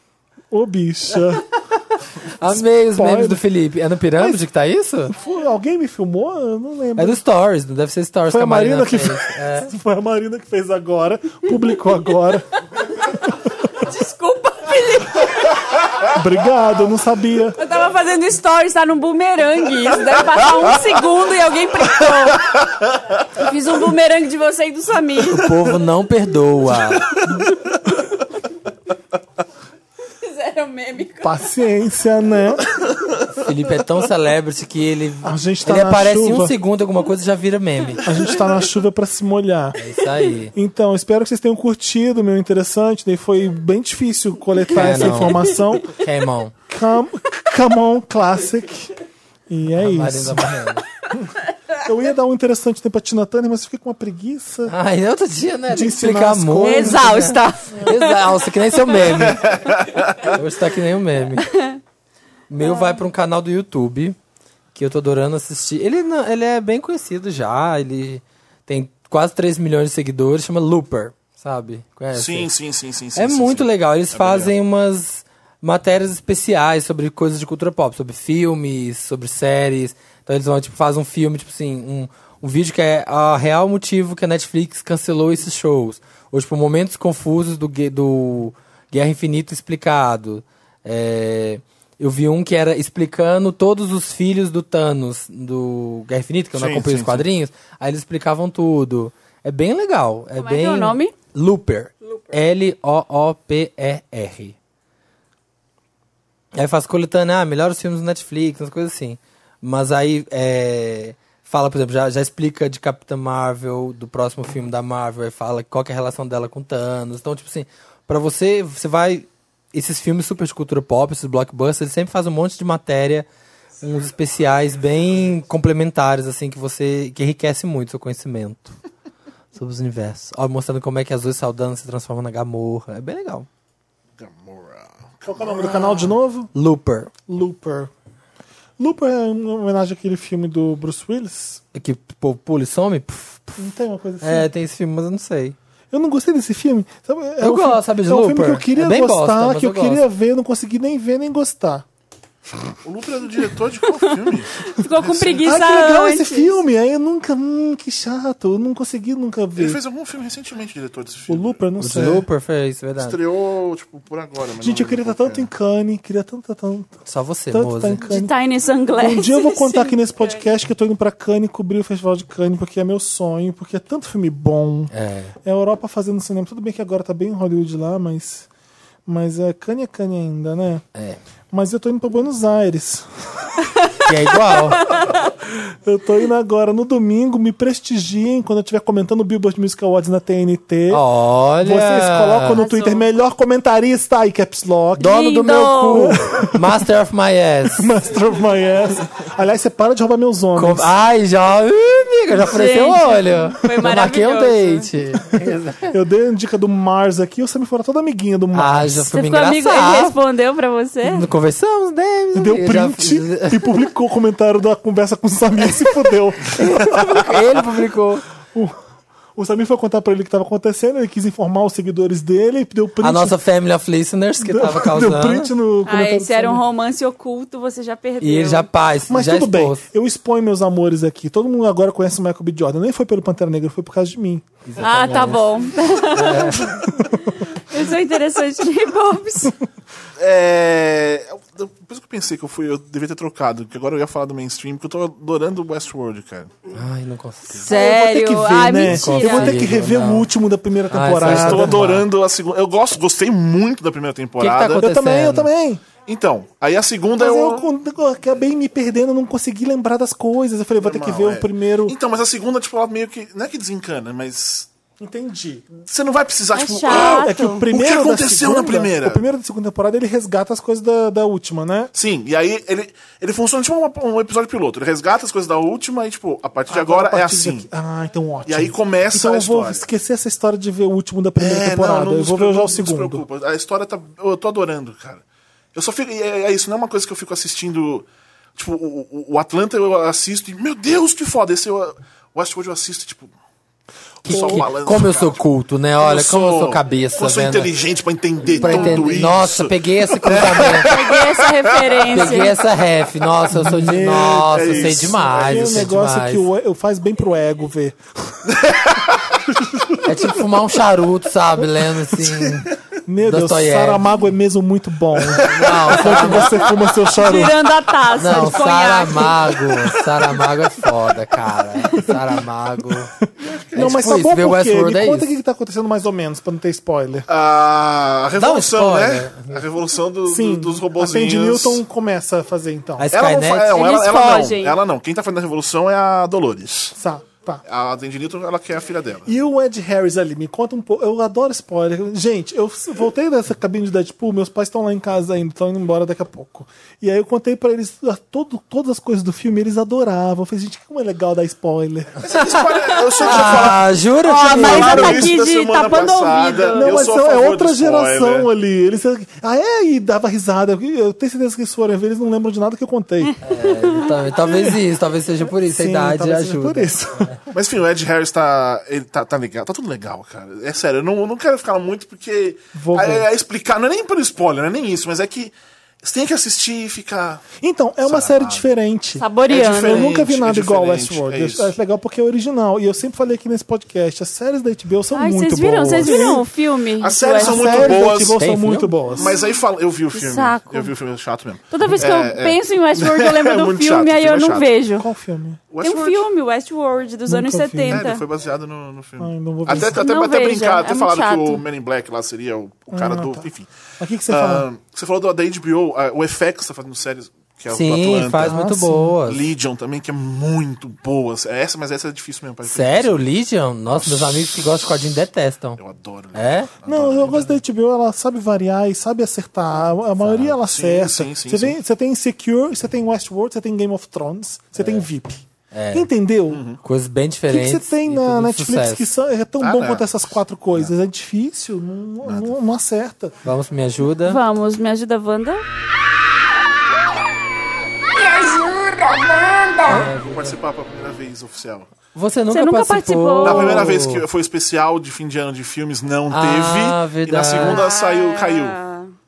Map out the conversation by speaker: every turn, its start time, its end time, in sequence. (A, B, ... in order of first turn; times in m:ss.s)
0:00.5-0:01.4 A
0:02.2-0:05.1 B
0:02.5-0:03.4 A
0:04.2-0:04.4 A
0:05.1-0:07.2 A
0:07.0-0:09.7 B
0:08.3-0:12.4 A
0:13.7-0:15.7 C
0:16.1-0:17.6 A
0:17.6-0:22.6 C
0:23.3-0:25.6 C
0:25.3-0:27.2 B
0:30.2-0:31.4 C
0:31.2-0:32.7 A
0:33.3-0:38.1 B
0:35.2-0:36.5 A
0:38.0-0:39.8 A
0:39.8-0:40.5 B
0:40.5-0:46.0 A
0:44.7-0:46.5 B
0:46.7-0:48.9 A
0:49.5-0:54.7 A
0:49.7-0:50.8 B
0:54.7-0:59.6 B
0:55.7-0:57.3 A
0:56.6-0:58.2 C
0:59.0-1:00.4 D
1:00.2-1:01.5 B
1:01.4-1:01.8 C
1:02.5-1:04.2 B
1:02.6-1:03.0 C
1:04.7-1:12.5 B
1:12.1-1:14.5 D
1:13.1-1:44.6 B
1:36.5-1:37.3 D
1:40.4-1:41.1 C
1:46.5-2:03.3 B
2:03.8-2:08.8 B
2:09.5-2:13.5 B
2:14.2-2:16.0 D
2:15.3-2:16.5 A
2:16.5-2:17.1 B
2:17.3-2:17.9 A
2:18.8-2:21.6 A
2:21.7-2:23.6 B
2:23.6-2:24.5 A
2:24.2-2:25.6 B
2:25.9-2:31.8 A
2:27.4-2:30.0 B
2:32.8-2:35.4 D
2:34.0-2:36.5 C
2:35.4-2:39.8 A
2:39.6-2:41.6 D
2:41.3-2:42.2 A
2:41.8-2:43.2 B
2:43.0-2:45.5 D
2:44.6-2:46.9 A
2:47.0-2:48.0 B
2:47.5-2:48.3 A
2:48.0-2:50.4 C
2:48.9-2:54.9 A
2:54.9-2:55.3 B
2:55.4-2:58.5 A
2:59.0-3:00.8 A
3:01.5-3:03.5 A
3:04.0-3:04.9 B
3:04.5-3:05.2 C
3:05.4-3:11.0 A
3:10.9-3:12.6 B
3:11.6-3:15.2 A
3:12.5-3:13.0 C
3:15.0-3:17.9 B
3:15.0-3:16.2 C
3:15.9-3:16.7 A
3:17.8-3:20.9 A
3:20.6-3:26.0 B
3:22.4-3:24.9 C
3:25.9-3:29.0 A
3:28.5-3:30.2 B
3:29.1-3:31.3 C
3:31.0-3:33.8 B
3:32.3-3:37.0 A
3:36.5-3:38.2 B
3:39.3-3:43.4 A
3:43.0-3:45.5 B
3:44.4-3:46.6 A
3:45.8-3:48.7 C
3:48.2-3:49.8 B
3:49.1-3:54.5 A
3:54.6-3:55.4 B
3:54.8-3:59.5 C
3:56.1-3:56.8 B
4:00.2-4:06.5 D
4:06.7-4:07.7 B
4:07.6-4:09.6 C
4:07.6-4:11.9 A
4:08.8-4:10.3 B
4:10.9-4:12.0 B
4:11.2-4:14.9 D
4:14.4-4:15.5 B
4:14.8-4:15.8 A
4:16.0-4:17.7 D
4:17.2-4:22.0 A
4:20.8-4:24.7 D
4:25.0-4:25.8 A
4:25.9-4:29.2 D
4:26.5-4:27.6 C
4:26.9-4:31.9 A
4:31.9-4:37.7 D
4:36.7-4:43.2 A
4:38.4-4:39.9 D
4:41.4-4:45.2 D
4:45.7-4:53.3 D
4:54.2-4:57.7 B
4:54.2-4:55.4 D
4:54.3-4:54.6 A
4:56.0-5:02.2 D
4:58.5-5:00.9 B
4:58.6-4:59.0 C
5:00.8-5:02.6 C
5:02.1-5:06.4 B
5:03.5-5:08.4 A
5:04.3-5:05.9 D
5:08.5-5:09.2 D
5:10.0-5:12.7 B
5:13.1-5:17.6 A
5:13.2-5:14.0 B
5:15.3-5:16.9 D
5:15.4-5:16.6 B
5:17.1-5:19.5 C
5:18.2-5:23.1 B
5:23.4-5:24.0 D
5:23.7-5:27.2 A
5:23.7-5:25.3 B
5:27.3-5:31.8 D
5:28.4-5:29.6 B
5:30.2-5:33.1 A
5:33.0-5:33.8 B
5:33.1-5:36.9 D
5:33.7-5:34.8 C
5:36.9-5:37.6 A
5:37.6-5:39.3 D
5:39.2-5:52.3 A
5:52.2-5:58.5 D
5:53.2-5:55.3 B
5:54.2-5:56.9 C
5:56.7-6:03.3 A
6:03.4-6:07.4 B
6:05.6-6:07.3 A
6:07.5-6:17.4 D
6:12.7-6:13.3 A
6:17.6-6:26.4 A
6:18.0-6:18.6 D
6:19.2-6:20.1 C
6:19.5-6:21.7 D
6:25.1-6:28.0 C
6:27.0-6:28.4 D
6:27.4-6:29.3 A
6:28.3-6:28.9 B
6:29.1-6:34.7 D
6:30.1-6:30.9 C
6:31.7-6:35.1 C
6:35.0-6:35.6 A
6:35.7-6:36.2 D
6:35.8-6:38.2 C
6:37.3-6:38.1 A
6:37.9-6:43.7 D
6:39.2-6:40.1 A
6:39.9-6:41.6 C
6:42.9-6:44.7 A
6:44.3-6:48.7 D
6:47.7-6:49.4 B
6:48.4-6:49.2 A
6:49.2-6:53.2 D
6:52.6-6:55.8 B
6:54.0-6:54.3 D
6:55.8-6:57.5 D
6:56.3-6:56.7 B
6:56.8-7:06.6 A
7:00.2-7:00.6 B
7:00.6-7:01.8 D
7:04.8-7:05.1 B
7:05.7-7:06.1 B
7:06.5-7:06.8 D
7:06.8-7:09.0 B
7:07.5-7:13.4 A
7:09.6-7:10.9 D
7:12.2-7:12.5 D
7:13.4-7:14.4 B
7:14.2-7:15.6 C
7:18.1-7:20.1 E
7:19.9-7:20.6 B
7:20.0-7:21.9 D
7:22.1-7:24.2 B
7:22.5-7:24.0 C
7:23.4-7:28.8 D
7:26.3-7:27.8 B
7:27.6-7:29.1 C